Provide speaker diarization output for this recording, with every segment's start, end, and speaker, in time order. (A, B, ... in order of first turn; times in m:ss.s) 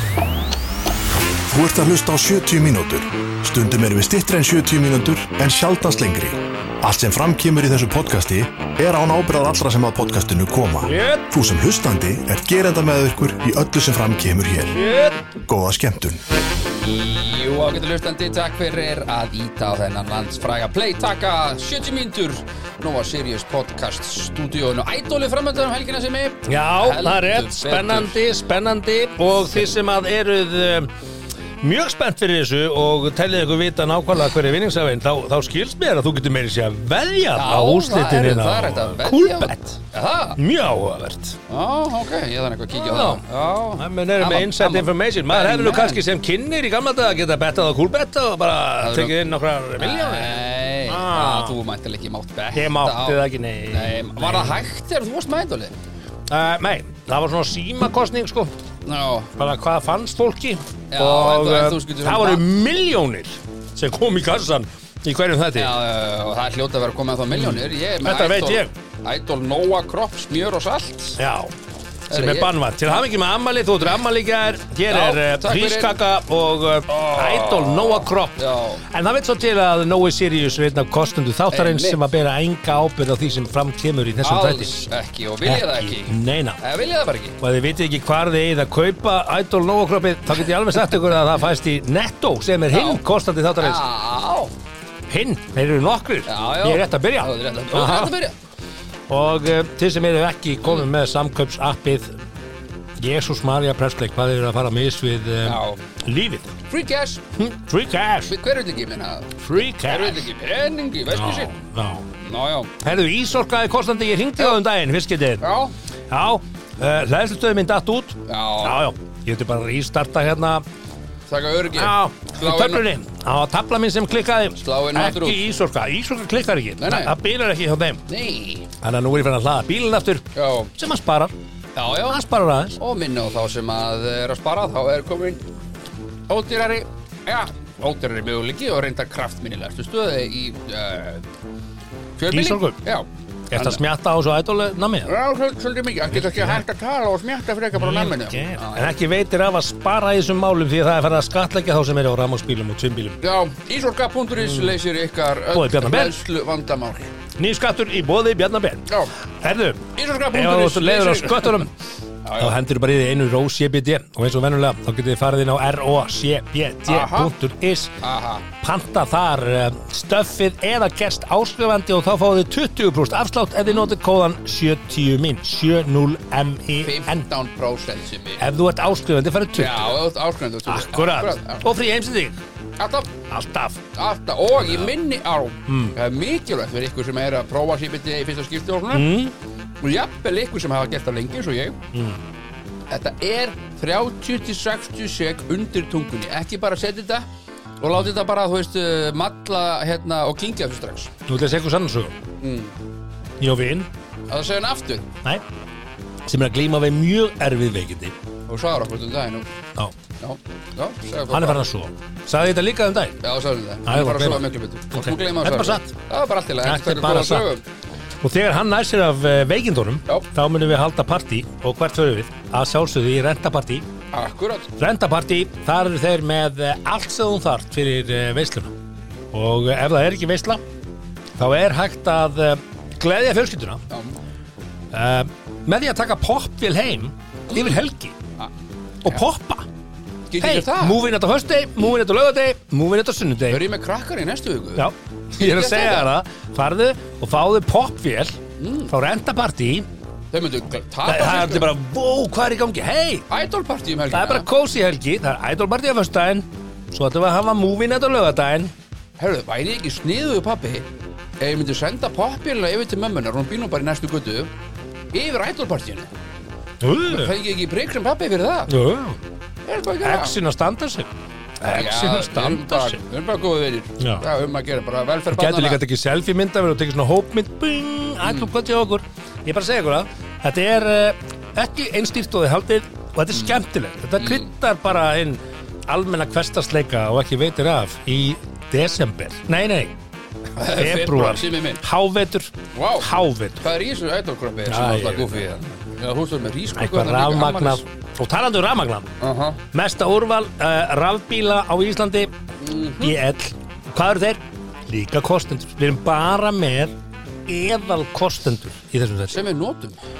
0:01.5-0:14.8 A
0:10.8-0:11.3 B
0:14.7-0:15.2 B
0:15.5-0:16.2 A
0:16.6-0:28.2 C
0:26.4-0:30.9 B
0:31.6-0:39.8 B
0:37.3-0:40.4 C
0:40.4-0:41.4 B
0:41.5-0:46.0 C
0:42.8-0:43.2 B
0:43.8-0:51.6 B
0:48.8-0:49.1 C
0:49.8-0:55.7 C
0:52.5-0:54.6 B
0:56.3-0:58.5 B
0:58.8-0:59.3 C
0:59.4-1:05.7 B
1:00.9-1:02.5 C
1:05.5-1:11.2 C
1:07.3-1:08.7 B
1:11.2-1:11.5 B
1:12.1-1:13.0 C
1:12.1-1:24.7 B
1:14.9-1:15.9 C
1:16.9-1:18.8 C
1:21.5-1:22.0 C
1:24.2-1:27.4 C
1:25.4-1:26.6 B
1:27.4-1:33.8 B
1:32.7-1:33.0 C
1:33.6-1:34.5 C
1:35.1-1:38.2 B
1:36.2-1:38.3 C
1:39.1-1:42.2 B
1:43.0-1:46.6 B
1:45.4-1:45.8 C
1:46.7-1:47.2 C
1:47.3-1:48.3 B
1:48.3-1:51.6 C
1:49.4-1:50.3 B
1:51.1-1:52.1 B
1:52.2-1:52.7 C
1:52.8-1:55.4 B
1:55.4-1:55.7 C
1:56.1-2:00.6 B
1:58.2-1:58.8 C
2:01.3-2:02.8 C
2:01.7-2:08.1 B
2:04.6-2:05.4 C
2:06.8-2:07.2 C
2:08.1-2:08.7 C
2:08.8-2:11.3 B
2:10.3-2:10.7 C
2:11.7-2:12.2 C
2:12.1-2:12.8 B
2:12.8-2:15.4 C
2:16.3-2:21.3 C
2:22.2-2:23.8 C
2:22.3-2:22.8 B
2:23.5-2:25.1 B
2:25.0-2:28.9 C
2:26.1-2:26.6 B
2:27.7-2:33.2 B
2:33.2-2:37.1 C
2:34.4-2:34.8 B
2:35.5-2:36.2 B
2:37.4-2:41.7 B
2:38.8-2:39.1 C
2:39.9-2:41.7 C
2:42.2-2:42.6 C
2:42.4-2:47.9 B
2:46.8-2:47.3 C
2:48.0-2:48.4 C
2:48.6-2:57.2 B
2:56.8-2:58.4 C
2:58.4-3:00.0 B
2:59.6-3:01.6 C
3:00.6-3:02.4 B
3:02.8-3:03.2 C
3:03.3-3:03.8 B
3:03.9-3:09.1 C
3:04.6-3:04.9 B
3:05.7-3:06.0 B
3:08.9-3:09.3 B
3:09.8-3:11.8 C
3:11.9-3:12.2 B
3:12.9-3:17.3 C
3:17.8-3:21.1 C
3:21.3-3:22.2 B
3:22.4-3:22.7 C
3:23.4-3:23.9 B
3:24.3-3:25.1 C
3:26.2-3:28.1 B
3:28.5-3:29.4 C
3:30.2-3:31.6 C
3:31.3-3:33.2 B
3:33.2-3:37.6 C
3:33.8-3:35.9 B
3:36.6-3:37.5 B
3:38.2-3:43.8 B
3:44.1-3:44.7 C
3:44.8-3:48.7 B
3:49.3-3:50.6 B
3:51.4-3:53.8 B
3:53.9-3:54.2 C
3:54.9-3:58.2 B
3:59.0-3:59.7 B
4:00.3-4:01.0 C
4:00.4-4:03.6 B
4:03.5-4:06.1 C
4:04.8-4:09.9 B
4:08.6-4:08.9 C
4:10.3-4:11.7 C
4:11.0-4:13.2 B
4:13.3-4:14.5 C
4:14.1-4:18.7 B
4:19.2-4:20.9 C
4:21.4-4:24.5 C
4:25.1-4:26.1 C
4:26.8-4:27.3 B
4:27.1-4:28.7 C
4:28.7-4:29.2 B
4:29.6-4:30.4 C
4:30.0-4:33.0 B
4:31.6-4:35.8 C
4:34.0-4:34.2 B
4:35.3-4:49.9 B
4:38.2-4:38.5 C
4:43.3-4:43.6 C
4:44.2-4:44.5 C
4:50.6-4:51.8 C
4:50.6-4:53.7 B
4:52.7-4:53.1 C
4:53.6-4:57.8 C
4:54.6-4:55.5 B
4:56.7-4:59.1 B
4:59.2-4:59.6 C
4:59.7-5:02.3 B
5:02.6-5:03.2 C
5:03.0-5:06.9 B
5:07.4-5:09.4 B
5:09.3-5:10.0 C